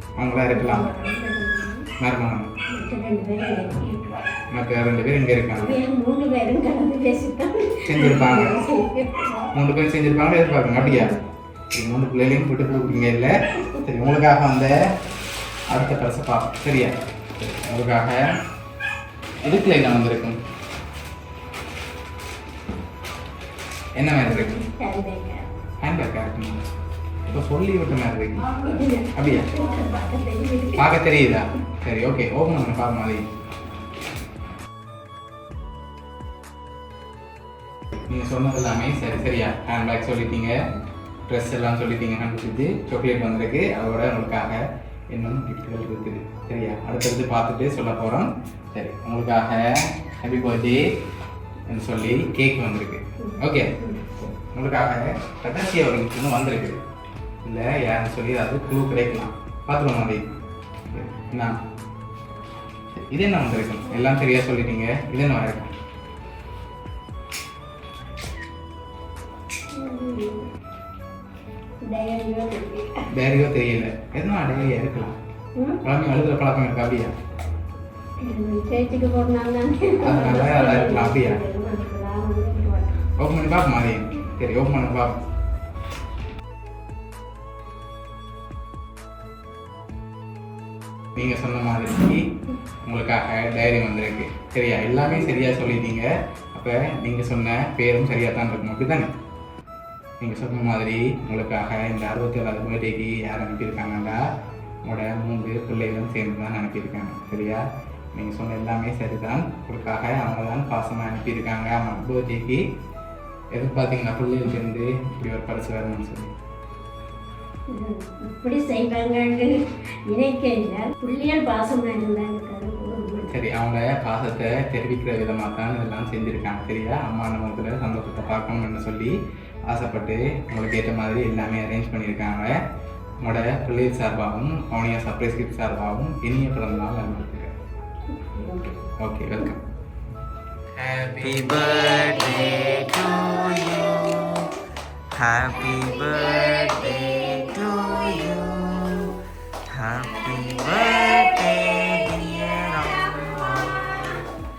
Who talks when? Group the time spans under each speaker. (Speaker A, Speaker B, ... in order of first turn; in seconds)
Speaker A: 0.2-0.9, 2.0-2.5, 4.5-5.8, 7.9-8.6, 9.5-11.1, 11.7-14.8, 15.7-18.3, 19.4-20.4, 24.0-24.5, 25.8-26.6, 27.2-29.5, 30.8-33.2, 38.1-40.5, 41.3-50.8, 51.7-56.8, 57.4-60.3, 60.9-61.6, 63.1-65.7, 73.1-75.2, 75.8-77.1, 80.0-81.4, 83.2-85.2, 91.2-92.2, 92.8-99.1, 100.2-104.2, 104.8-107.6, 108.2-112.6, 113.5-116.3, 123.3-129.1, 129.7-132.5, 133.2-137.5, 139.0-139.6, 140.8-141.2
Speaker B: 0.5-1.9, 2.7-4.2, 5.5-9.5, 10.7-11.2, 24.2-25.5, 28.6-30.9, 53.2-54.0, 69.7-70.5, 71.8-73.0, 75.6-75.8, 78.2-83.0, 117.7-119.5, 120.1-123.3, 138.2-138.8
Speaker C: 141.1-144.5, 145.1-154.1